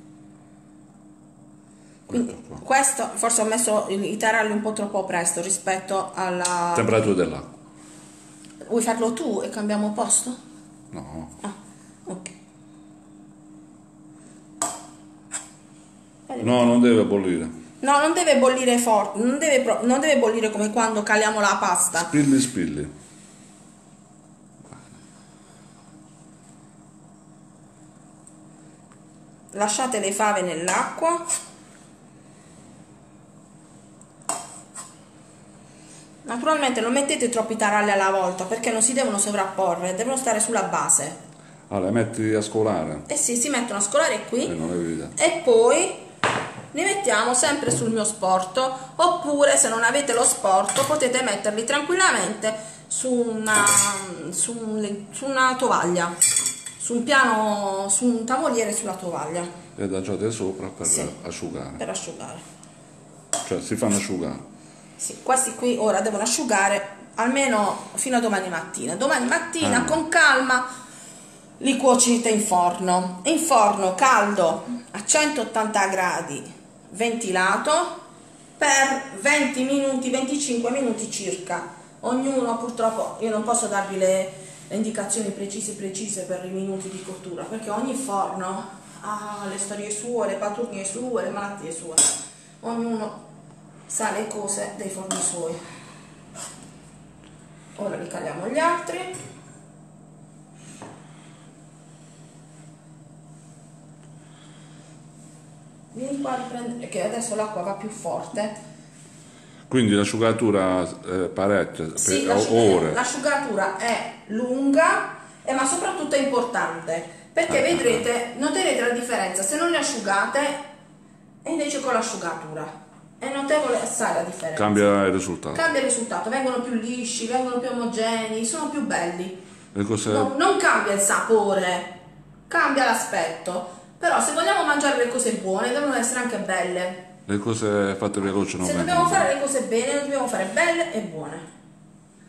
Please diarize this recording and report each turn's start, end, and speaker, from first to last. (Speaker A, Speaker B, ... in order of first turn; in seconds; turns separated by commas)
Speaker A: 2.1-2.6, Speaker B: 2.1-7.0, Speaker A: 6.7-7.5, Speaker B: 8.6-10.4, Speaker A: 10.9-11.3, Speaker B: 11.4-12.3, Speaker B: 16.3-16.7, Speaker A: 16.4-17.5, Speaker B: 17.8-22.1, Speaker A: 21.9-22.9, Speaker B: 29.5-31.2, Speaker B: 36.2-41.2, Speaker A: 41.7-43.0, Speaker B: 43.1-44.5, Speaker A: 44.4-45.1, Speaker B: 45.1-46.0, Speaker B: 46.7-56.2, Speaker B: 56.8-59.5, Speaker A: 59.8-61.8, Speaker B: 60.8-61.1, Speaker B: 61.8-62.4, Speaker A: 63.4-64.4, Speaker B: 65.0-70.7, Speaker A: 69.6-70.0, Speaker B: 71.6-78.0, Speaker B: 78.6-93.2, Speaker B: 93.9-95.6, Speaker B: 97.8-99.1, Speaker B: 105.9-108.6, Speaker A: 109.7-113.0, Speaker B: 112.0-120.6, Speaker A: 117.5-118.0, Speaker B: 121.4-124.9, Speaker A: 124.5-125.6, Speaker B: 125.5-129.4, Speaker A: 129.7-130.3, Speaker B: 130.1-131.9, Speaker B: 132.5-137.1, Speaker A: 137.2-139.3, Speaker B: 138.6-141.4